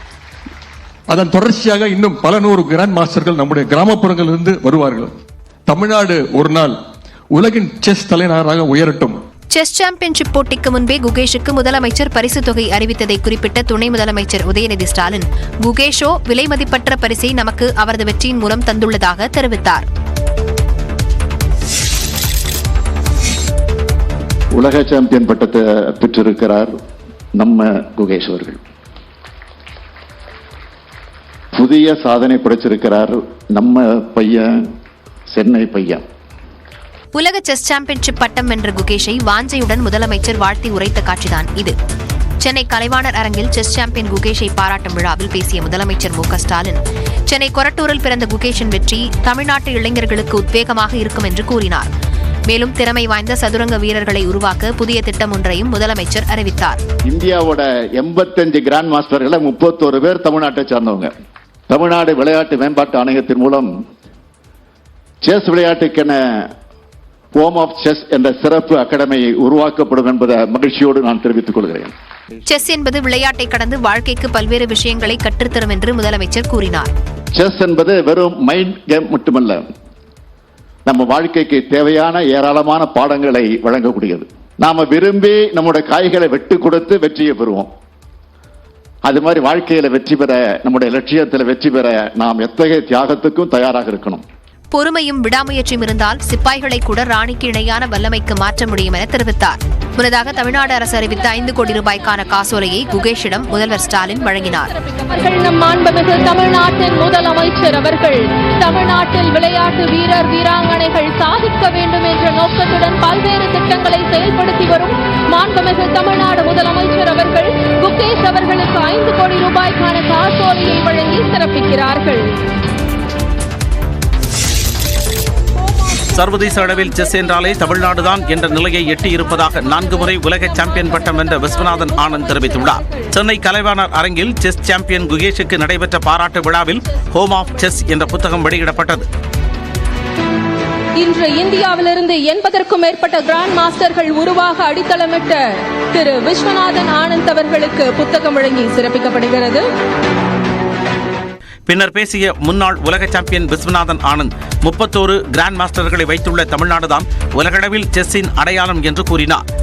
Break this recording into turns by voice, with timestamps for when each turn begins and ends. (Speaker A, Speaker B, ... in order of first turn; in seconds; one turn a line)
Speaker A: 1.1-5.1
Speaker A: 5.7-6.7
Speaker A: 7.3-9.2
Speaker B: 9.5-19.8
Speaker C: 24.5-26.7
Speaker C: 27.4-28.6
Speaker C: 31.5-34.4
Speaker C: 35.3-36.0
Speaker B: 37.2-41.7
Speaker B: 42.4-51.9
Speaker B: 52.5-56.8
Speaker C: 57.1-61.1
Speaker C: 61.7-63.7
Speaker C: 65.2-66.5
Speaker C: 67.3-71.9
Speaker B: 72.5-76.9
Speaker C: 77.3-79.6
Speaker C: 80.8-87.7
Speaker C: 89.1-94.2
Speaker B: 94.7-104.7
Speaker D: 100.7-122.3
Speaker D: 125.6-133.2
Speaker E: 126.1-139.1
Speaker D: 136.8-138.4
Speaker D: 141.0-149.7
Speaker E: 151.7-159.4